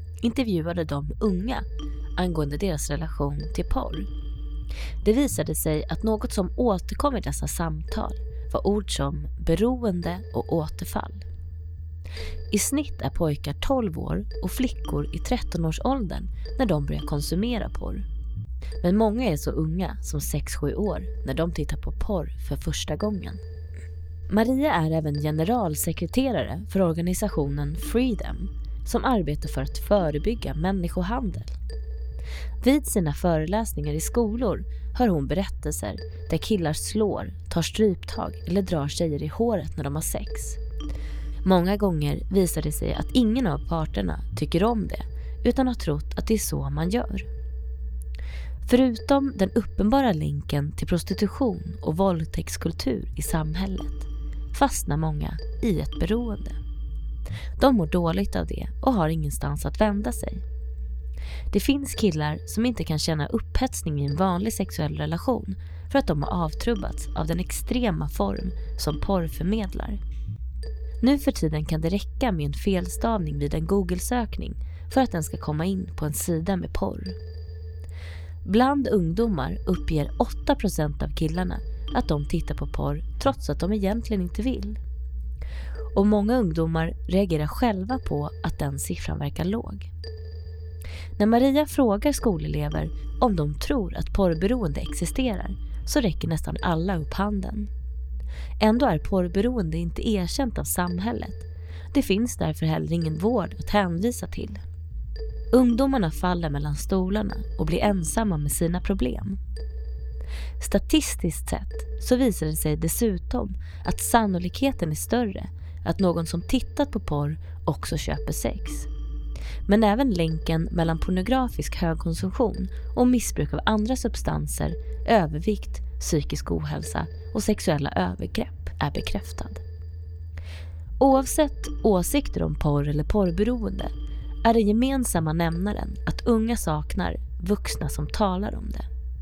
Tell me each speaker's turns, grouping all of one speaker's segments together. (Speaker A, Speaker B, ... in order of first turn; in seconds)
Speaker A: 0.2-1.6, 2.2-4.1, 5.0-11.2, 12.5-18.1, 18.8-23.4, 24.3-31.6, 32.6-40.6, 41.4-47.3, 48.7-56.6, 57.6-60.4, 61.5-70.0, 71.0-77.2, 78.5-84.8, 85.9-89.9, 91.2-97.7, 98.6-104.6, 105.5-109.4, 110.6-118.9, 119.7-129.6, 131.0-133.9, 134.4-138.9